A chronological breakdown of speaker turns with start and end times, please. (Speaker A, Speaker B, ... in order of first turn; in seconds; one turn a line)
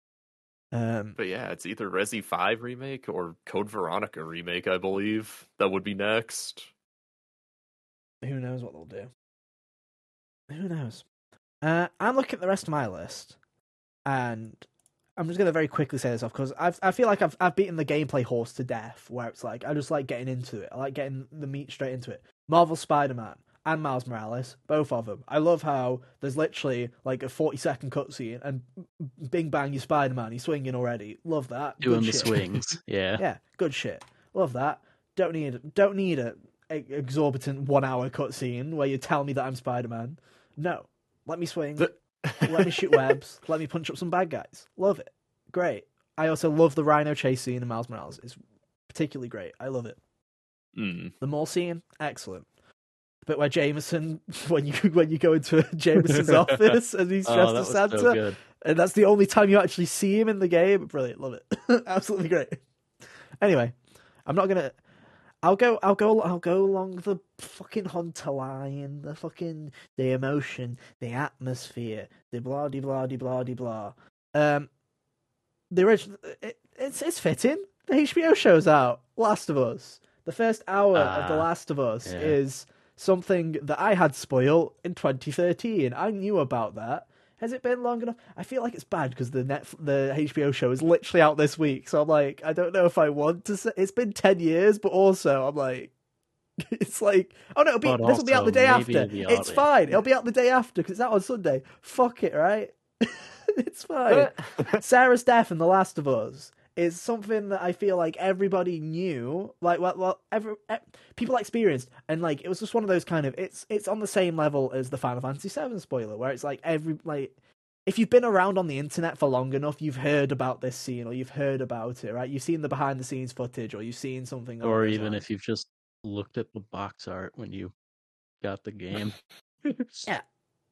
Speaker A: 0.7-1.2
Speaker B: 1.2-6.7
Speaker A: 8.2-9.1
Speaker A: 10.5-11.0
Speaker A: 11.6-13.4
Speaker A: 14.1-14.6
Speaker A: 15.2-32.4
Speaker C: 31.8-33.2
Speaker A: 33.2-50.0
Speaker B: 41.8-43.1
Speaker B: 50.7-51.1
Speaker A: 51.2-52.5
Speaker A: 53.2-62.6
Speaker C: 56.0-58.4
Speaker A: 63.4-64.8
Speaker A: 65.4-74.7
Speaker A: 75.7-95.9
Speaker C: 80.9-81.5
Speaker C: 82.0-82.4
Speaker A: 96.6-117.3
Speaker C: 97.8-99.7
Speaker B: 104.1-104.8
Speaker A: 117.8-125.2
Speaker C: 124.6-127.7
Speaker C: 128.4-130.1